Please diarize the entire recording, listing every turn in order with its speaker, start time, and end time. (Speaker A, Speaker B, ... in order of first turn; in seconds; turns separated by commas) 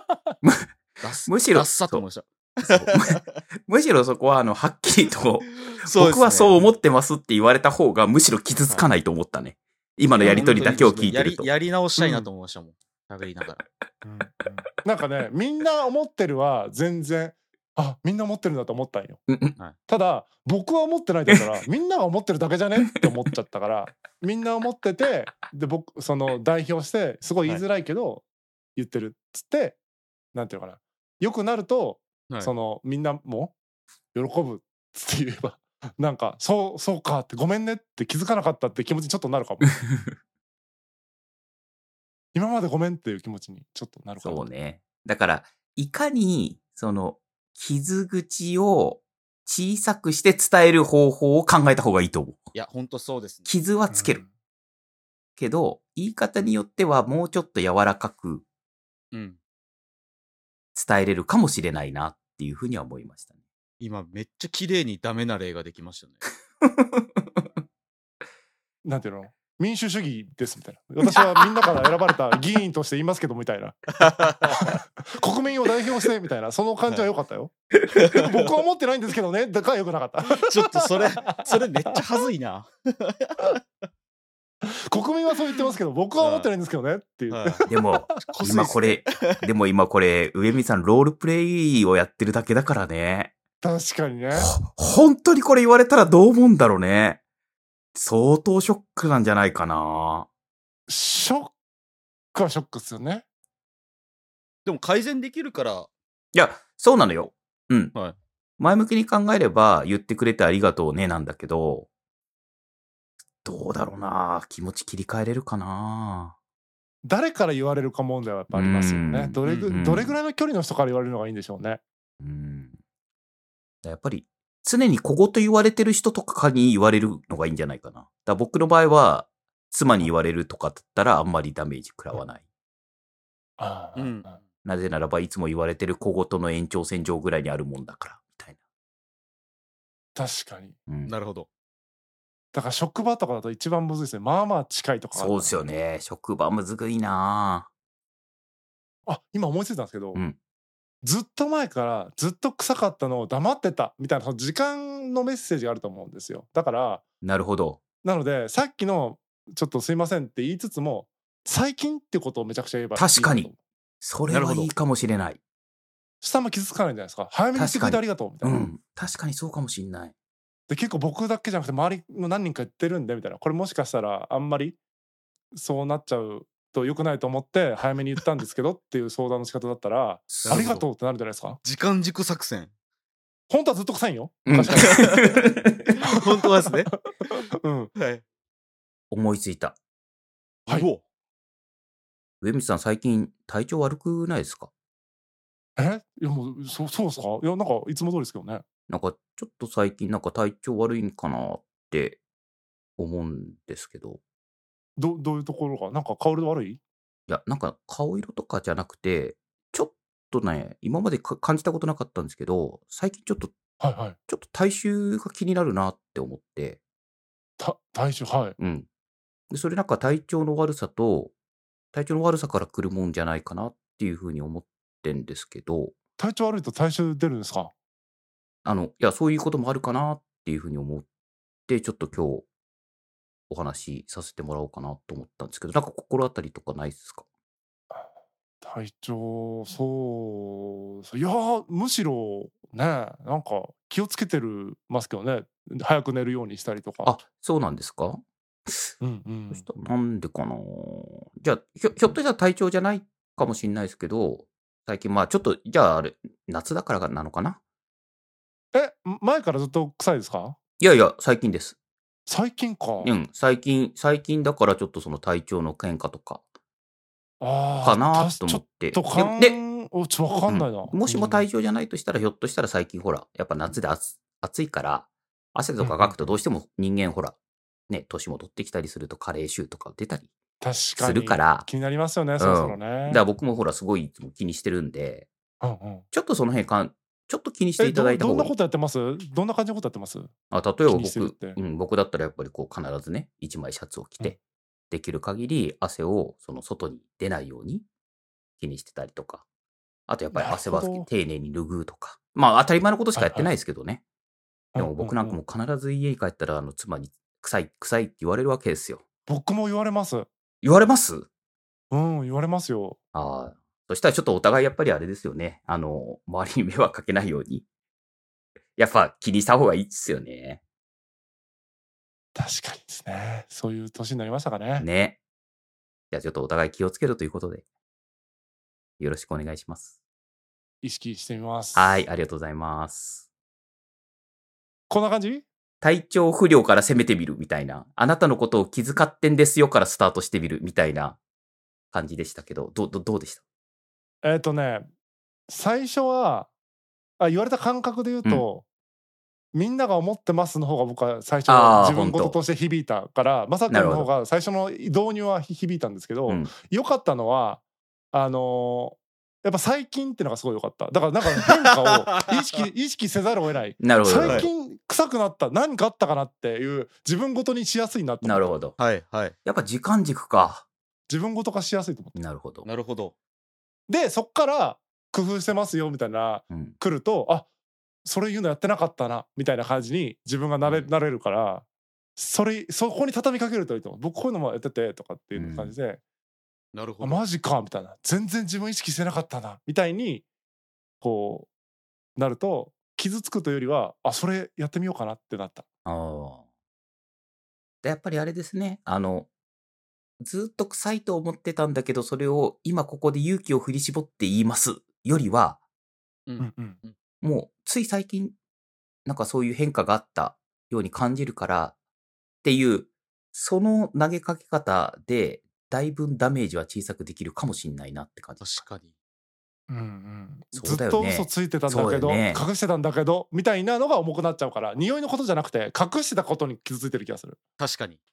Speaker A: 0.4-0.7, Speaker B: 1.0-3.4, Speaker A: 1.3-2.0, Speaker A: 2.7-11.5, Speaker B: 5.7-6.5, Speaker B: 10.2-13.6, Speaker C: 10.2-11.1, Speaker C: 12.0-12.3, Speaker C: 14.0-19.2, Speaker A: 19.3-19.6, Speaker C: 19.9-28.2, Speaker C: 28.8-29.8, Speaker C: 30.3-33.5, Speaker C: 34.1-39.8, Speaker C: 42.3-44.5, Speaker A: 44.2-52.4, Speaker B: 52.5-53.5, Speaker A: 53.5-54.2, Speaker C: 53.9-54.3, Speaker A: 55.4-58.4, Speaker B: 59.1-59.4, Speaker A: 60.8-63.3, Speaker B: 63.8-66.3, Speaker A: 66.6-67.5, Speaker C: 68.8-73.8, Speaker B: 74.0-74.6, Speaker C: 74.5-81.6, Speaker B: 80.3-83.6, Speaker C: 84.6-88.4, Speaker B: 86.2-86.5, Speaker B: 87.3-87.7, Speaker A: 87.7-93.3, Speaker B: 88.3-89.4, Speaker C: 93.6-94.5, Speaker A: 94.4-97.2, Speaker A: 98.0-100.3, Speaker C: 100.9-101.5, Speaker C: 102.3-103.2, Speaker B: 104.7-105.9, Speaker A: 106.3-107.9, Speaker A: 108.6-111.9, Speaker A: 113.4-116.3, Speaker C: 117.0-121.8, Speaker A: 118.5-120.2, Speaker B: 119.5-119.7, Speaker A: 122.2-122.8, Speaker A: 123.8-132.4, Speaker C: 133.6-134.4, Speaker B: 134.0-134.3, Speaker A: 134.7-138.6, Speaker C: 140.2-140.8, Speaker A: 140.9-141.1, Speaker B: 141.1-141.5, Speaker C: 142.5-145.7, Speaker A: 145.2-147.7, Speaker C: 149.1-150.2, Speaker C: 151.0-157.0, Speaker A: 157.2-157.8, Speaker C: 158.0-163.6, Speaker A: 162.9-163.5, Speaker A: 164.0-165.4, Speaker B: 164.3-164.7, Speaker C: 166.2-168.7, Speaker A: 167.6-170.1, Speaker C: 170.7-174.8, Speaker C: 175.5-181.6, Speaker A: 180.3-180.8, Speaker B: 180.5-180.8, Speaker B: 181.6-182.7, Speaker C: 183.5-185.3, Speaker A: 184.5-185.9, Speaker B: 184.8-185.2, Speaker B: 186.0-186.9, Speaker C: 187.2-187.9, Speaker B: 188.0-188.2, Speaker A: 189.1-189.8, Speaker B: 190.7-191.0, Speaker A: 192.4-194.7, Speaker C: 195.8-198.6, Speaker A: 198.9-202.2, Speaker A: 203.0-204.2, Speaker C: 205.0-206.8, Speaker A: 207.3-213.5, Speaker C: 213.8-214.2, Speaker A: 214.3-216.8, Speaker C: 217.6-218.6, Speaker A: 218.6-218.9, Speaker A: 219.5-221.3, Speaker A: 221.9-225.9, Speaker C: 226.2-227.7, Speaker A: 228.7-231.1, Speaker A: 231.7-232.5, Speaker A: 233.5-237.2, Speaker C: 238.6-247.2, Speaker A: 247.1-248.9, Speaker C: 249.0-249.7, Speaker A: 249.5-257.6, Speaker C: 258.7-260.6, Speaker A: 260.8-261.8, Speaker C: 262.3-263.1, Speaker A: 263.0-266.4, Speaker C: 267.4-271.5, Speaker A: 267.8-269.6, Speaker A: 270.5-277.4, Speaker C: 275.8-276.4, Speaker A: 277.9-280.3, Speaker C: 280.6-283.2, Speaker A: 281.0-281.7, Speaker A: 282.4-285.3, Speaker C: 285.6-286.1, Speaker A: 286.1-288.5, Speaker C: 287.8-290.3, Speaker A: 290.5-294.4, Speaker C: 290.9-291.6, Speaker A: 294.9-297.9, Speaker A: 298.6-299.4, Speaker A: 300.1-304.0, Speaker C: 300.3-301.1, Speaker C: 303.2-303.5, Speaker C: 304.7-305.4, Speaker A: 304.8-309.0, Speaker C: 309.3-310.3, Speaker A: 310.6-311.3, Speaker C: 311.9-313.0, Speaker A: 313.1-317.6, Speaker A: 318.8-320.6, Speaker C: 322.4-324.9, Speaker A: 324.8-325.2, Speaker A: 326.1-327.6, Speaker A: 329.0-329.9, Speaker C: 330.8-332.1, Speaker A: 331.8-333.2, Speaker C: 334.9-335.5, Speaker A: 335.8-341.2, Speaker A: 341.9-343.4, Speaker C: 344.2-344.9, Speaker C: 345.5-346.5, Speaker C: 347.2-348.6, Speaker C: 349.5-357.6, Speaker A: 351.5-352.4, Speaker A: 353.7-354.1, Speaker C: 358.1-368.6, Speaker A: 363.8-364.5, Speaker A: 368.2-368.8, Speaker B: 368.8-369.4, Speaker A: 369.4-370.6, Speaker C: 371.1-372.1, Speaker A: 372.1-372.7, Speaker B: 372.6-373.1, Speaker C: 373.9-377.5, Speaker A: 376.5-376.8, Speaker C: 378.1-381.6, Speaker C: 382.2-386.0, Speaker A: 385.4-385.7, Speaker B: 386.7-387.3, Speaker C: 387.0-390.2, Speaker C: 391.0-391.5, Speaker C: 392.2-395.6, Speaker A: 395.9-396.4, Speaker A: 397.8-399.3, Speaker A: 400.2-405.6, Speaker B: 406.3-406.9, Speaker C: 406.4-406.8, Speaker A: 407.2-408.4, Speaker A: 409.1-411.8, Speaker A: 412.4-418.6, Speaker B: 418.4-418.9, Speaker C: 419.7-427.4, Speaker A: 420.5-422.4, Speaker B: 427.6-428.0